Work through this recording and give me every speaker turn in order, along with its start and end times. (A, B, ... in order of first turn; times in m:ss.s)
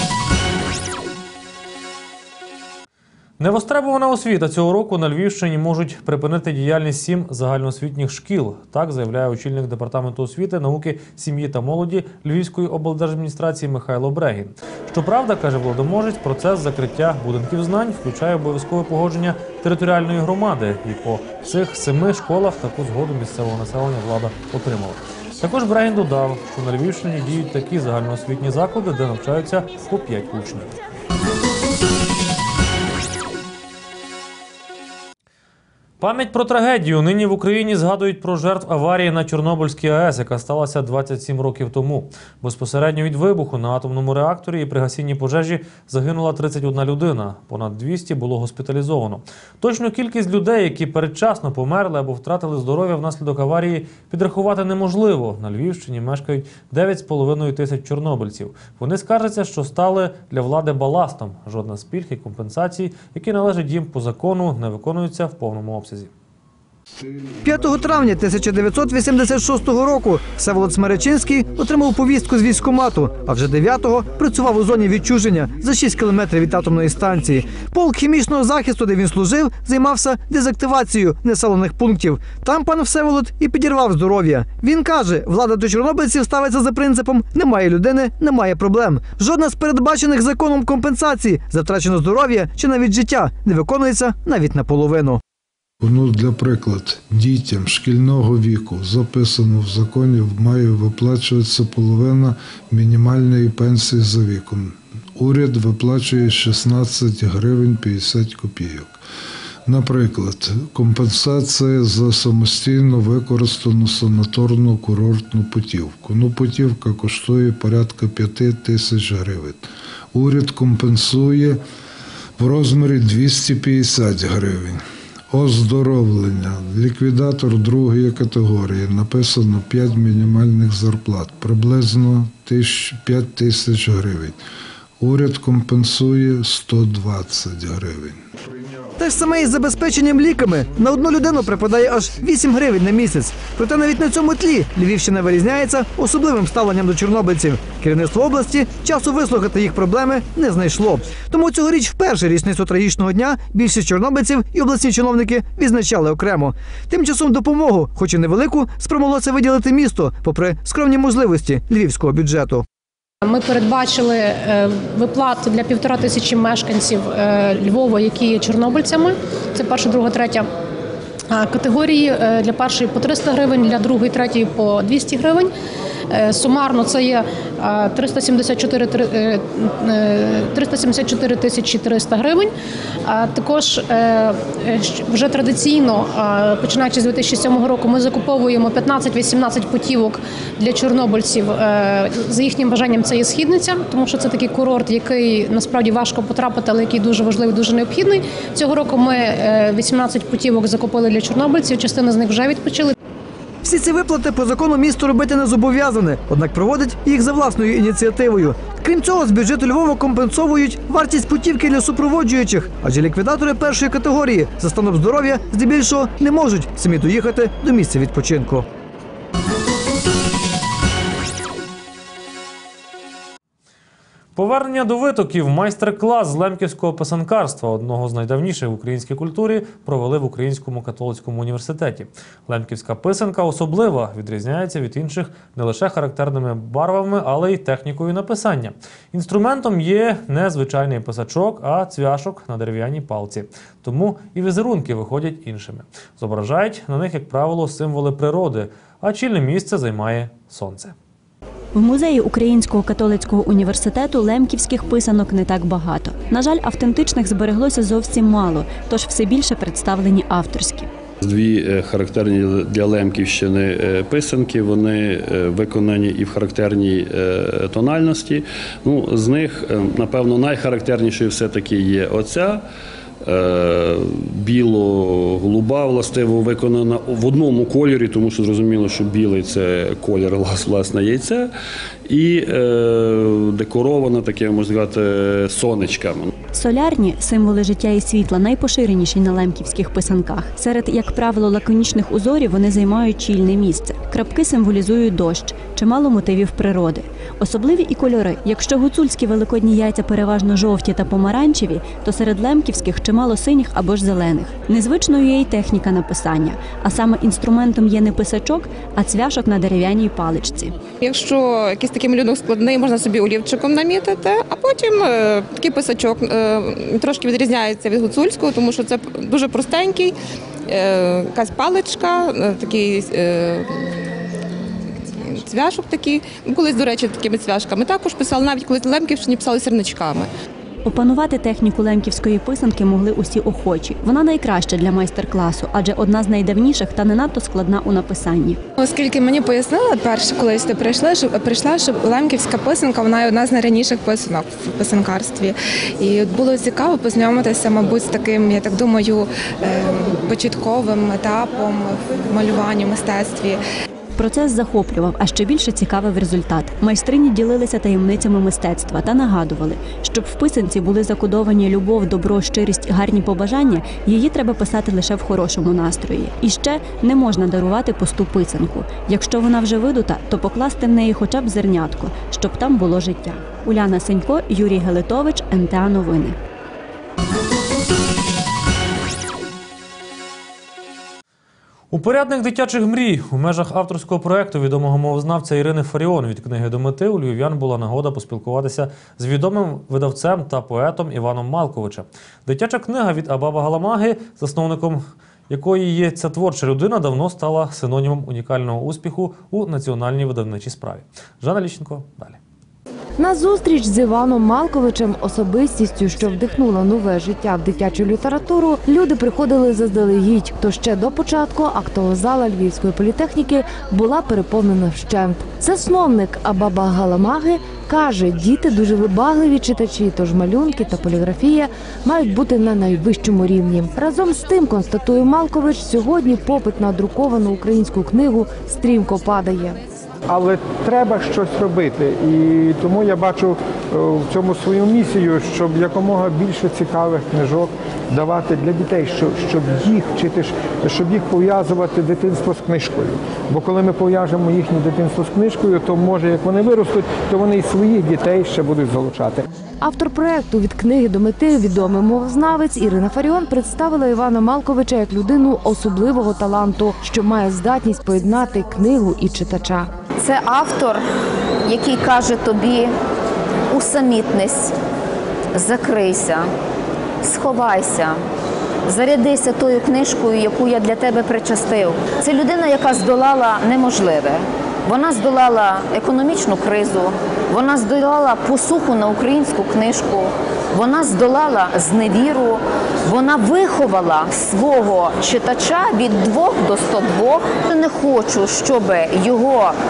0:03.4-0:30.7 A
0:36.0-1:06.1 A
1:07.4-1:35.2 B
1:35.8-1:49.0 C
1:49.6-2:01.6 C
2:02.4-2:14.4 C
2:15.0-2:18.2 C
2:19.0-2:42.6 B
2:43.2-2:50.5 D
2:51.3-2:55.5 D
2:56.1-3:02.5 D
3:03.0-3:22.9 D
3:23.6-3:38.6 B
3:44.4-4:10.9 A
4:11.7-4:20.9 E
4:21.2-4:32.6 F
4:33.2-4:41.5 F
4:42.1-4:46.3 F
4:46.5-5:10.8 E
5:11.0-5:20.1 G
5:20.7-5:23.8 G
5:25.1-5:30.3 G
5:30.8-5:38.6 E
5:38.8-5:53.6 H
5:54.2-6:16.4 E
6:21.9-6:42.4 A
6:43.2-7:09.8 I
7:10.3-7:29.4 J
7:29.8-7:39.9 I
7:40.2-7:41.0 K
7:41.6-7:42.9 K
7:43.7-7:44.7 K
7:45.5-7:46.5 K
7:47.2-7:48.2 K
7:48.9-8:09.7 K